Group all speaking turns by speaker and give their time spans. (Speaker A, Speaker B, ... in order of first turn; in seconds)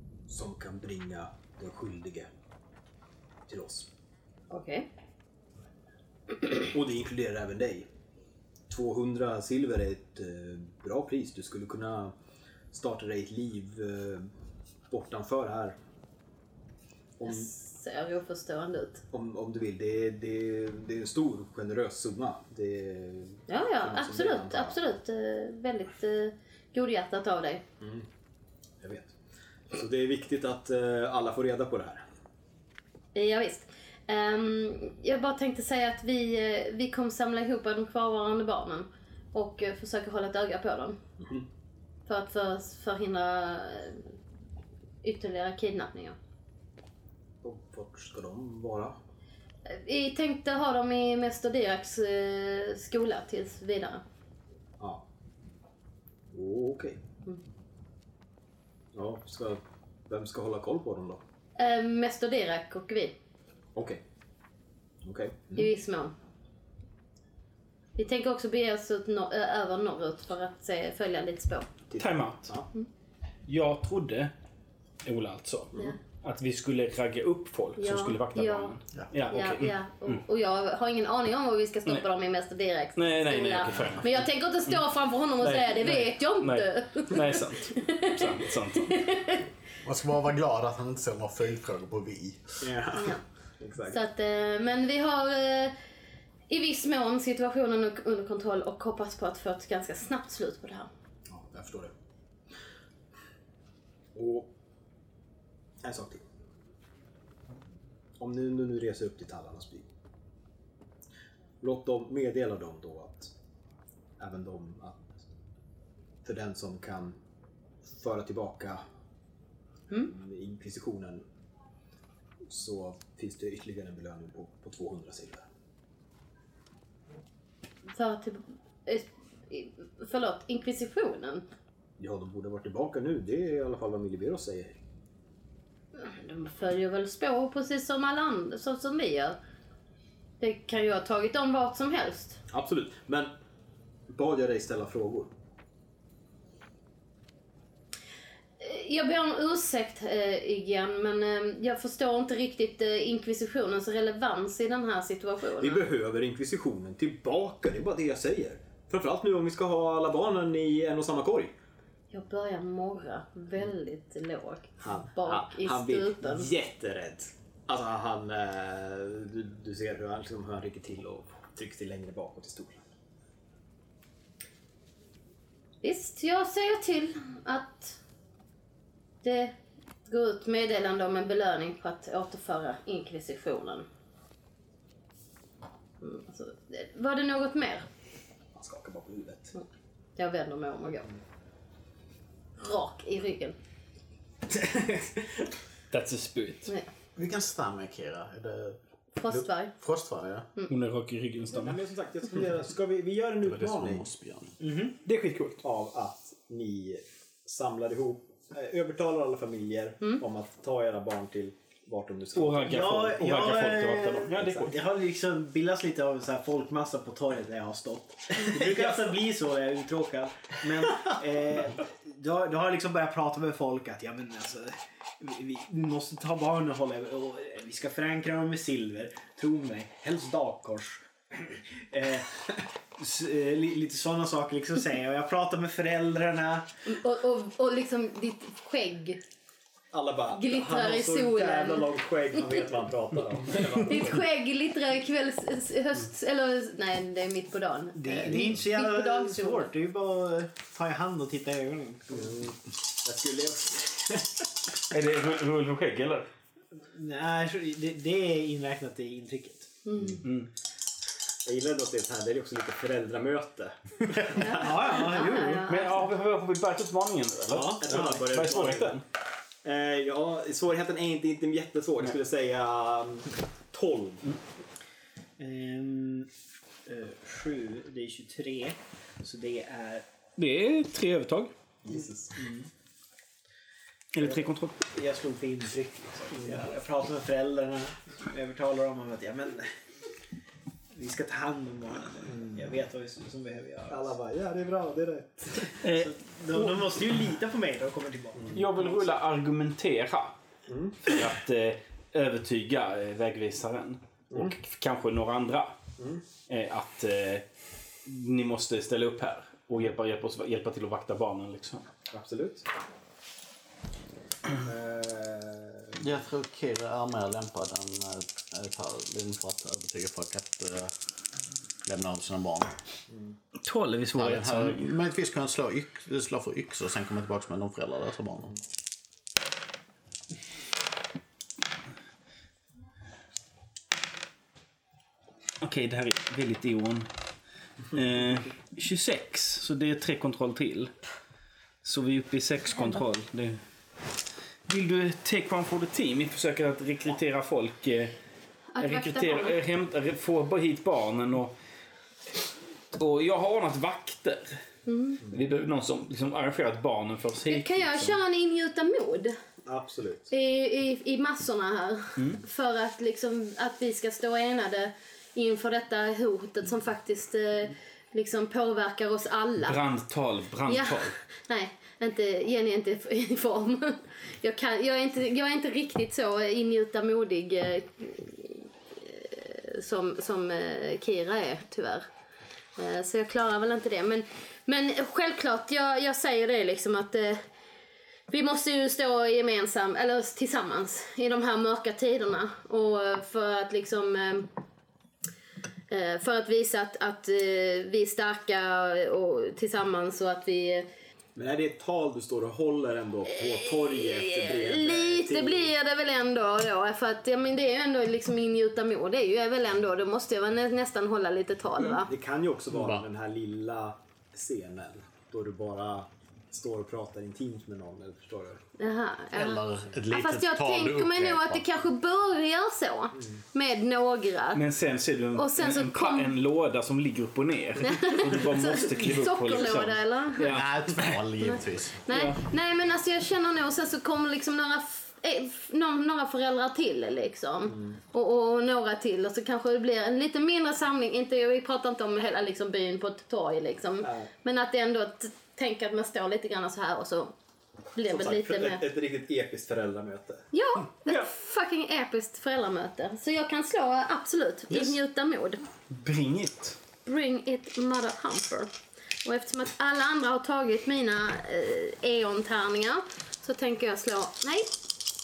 Speaker A: 0.3-2.3, 3.5-3.9, 6.5-7.9, 8.7-12.1, 12.7-14.3, 14.9-15.8, 17.2-17.5, 19.1-24.8, 27.8-28.1, 28.8-29.2, 29.7-32.0, 47.4-49.0, 54.8-55.0, 56.3-57.0, 58.9-61.2, 63.8-64.0, 65.0-65.7, 71.9-72.7, 92.6-94.0, 101.3-101.9, 104.2-104.5, 105.8-106.2, 108.2-109.9, 111.6-113.3, 114.2-115.3, 116.2-117.2, 117.9-118.8, 120.0-121.2, 122.5-125.5, 132.0-134.8, 142.5-143.3, 144.1-145.3, 155.6-161.5, 164.8-172.8, 188.6-189.6, 194.5-195.5, 201.5-204.1, 205.6-213.0, 214.4-214.7, 239.9-244.3, 252.1-254.5, 261.4-265.1, 267.8-269.0, 269.6-274.4, 281.8-282.4, 292.3-292.6, 293.9-295.8, 298.4-298.6, 300.7-301.0, 306.0-306.2, 312.1-312.7, 314.6-316.1, 323.1-323.4, 359.6-360.3, 401.4-405.7, 412.0-418.6, 437.7-438.0, 444.0-444.3, 448.0-450.5
Speaker B: 4.5-4.9, 17.3-19.0, 23.5-27.6, 33.1-41.0, 42.1-44.1, 45.0-46.2, 49.7-54.0, 61.6-63.2, 65.5-66.1, 68.0-71.8, 77.8-78.8, 79.3-89.5, 93.0-93.2, 93.9-95.8, 96.5-100.9, 127.9-131.4, 135.9-139.4, 140.4-142.4, 148.6-155.8, 162.1-166.5, 175.8-178.0, 179.2-183.9, 186.0-187.9, 189.6-191.1, 192.6-193.6, 199.2-199.7, 236.9-239.2, 240.3-242.7, 243.8-249.7, 259.9-260.2, 264.4-266.1, 348.7-349.6, 354.9-355.2, 357.5-359.4, 360.3-369.8, 370.7-382.1, 382.8-387.4, 388.3-394.5, 395.9-400.9, 403.5-412.1, 418.8-424.6, 425.4-426.4, 427.8-430.6, 431.4-447.3, 447.9-448.8, 450.5-455.6, 457.1-458.7, 459.2-464.7
Speaker C: 72.0-72.5, 73.5-74.3, 75.0-80.2, 83.0-84.8, 85.4-89.0, 195.9-196.7, 200.7-201.8, 205.0-205.6, 212.3-214.8, 254.9-256.3, 260.2-260.5, 265.7-269.0, 280.4-281.5, 284.1-284.8, 295.8-296.8, 298.5-300.4, 301.0-305.8, 306.5-307.5, 308.1-311.9, 323.6-324.9, 335.6-337.1, 337.9-340.9, 341.8-343.6, 344.7-348.1, 348.8-351.6, 352.9-354.6, 355.3-358.2, 362.2-362.4, 369.6-371.2, 424.5-430.7, 432.1-432.4, 454.7-455.0, 455.9-456.8
Speaker D: 89.8-92.8, 197.2-200.5, 203.4-204.6, 248.1-248.5, 316.0-320.9, 321.8-322.8, 324.1-328.6, 412.7-413.1, 419.3-421.6, 430.5-432.0
Speaker E: 204.6-205.0, 212.7-236.7, 248.0-252.3, 256.9-259.7, 264.6-265.7, 267.5-268.5, 275.4-276.3, 276.9-280.1, 282.4-282.7, 284.9-289.8, 290.9-294.1, 295.8-298.5